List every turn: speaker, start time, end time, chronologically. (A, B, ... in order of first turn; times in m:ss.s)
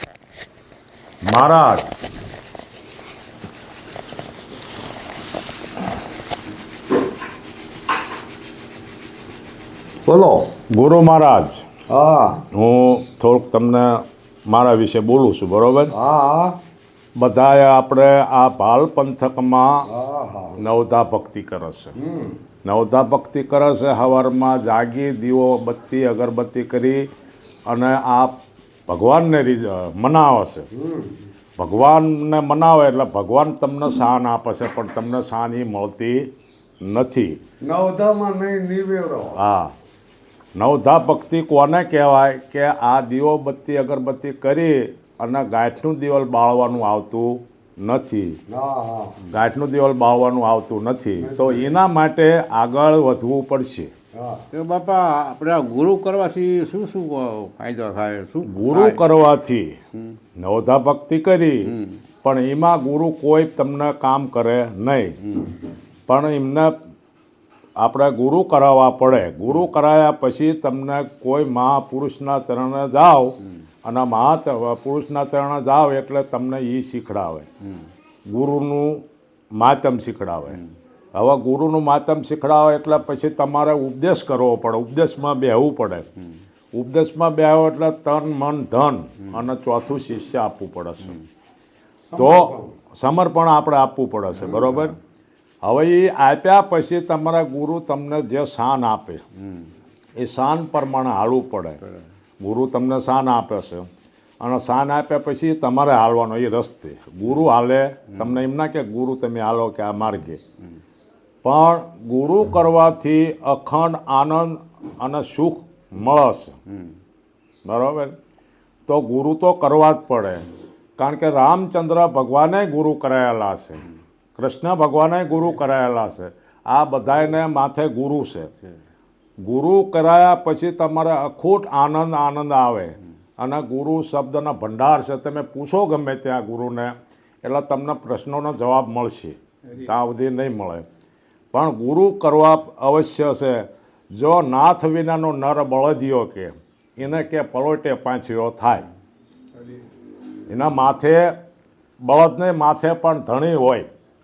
0:01.2-0:01.9 A
0:10.0-0:10.5 B
0:10.7-0:11.6 A
0:11.9-0:12.4 B
0:12.5-0:15.9 A
0:15.9-0:16.6 B
0:17.2-0:19.9 A
0:19.8-0:20.6 B
0:20.6-0:21.9 A
0:22.0-0:22.4 B
0:22.6-0:27.0 A
0:27.7-0:28.4 A
0:28.9-0:30.7 A
0:30.7-0:31.2 B
0:31.6-0:36.3 A
0:36.8-0:37.4 A
0:37.6-0:39.4 B
0:39.3-0:39.7 A
0:40.6-0:48.4 A
0:48.5-0:49.2 B
0:49.3-0:53.9 A
0:51.2-0:51.8 B
0:54.1-0:54.4 B
0:54.5-0:59.0 C
0:58.4-0:59.8 A
1:00.4-1:01.7 A
1:01.6-1:02.0 C
1:02.2-1:05.2 A
1:05.2-1:05.5 C
1:06.1-1:06.8 A
1:07.8-1:17.5 A
1:18.3-1:19.0 A
1:19.6-1:20.6 A
1:21.1-1:26.1 A
1:26.7-1:31.1 A
1:32.1-1:32.8 B
1:32.2-1:34.9 A
1:34.5-1:34.9 C
1:35.6-1:39.2 A
1:39.4-1:39.7 C
1:40.2-1:41.8 A
1:42.4-1:43.9 A
1:44.4-1:50.4 A
1:48.1-1:48.4 C
1:51.4-1:56.6 A
1:57.6-1:58.1 A
1:58.9-2:00.4 A
2:01.0-2:03.8 A
2:04.4-2:08.5 A
2:09.4-2:20.8 A
2:21.5-2:28.9 A
2:30.5-2:31.4 A
2:32.0-2:33.9 A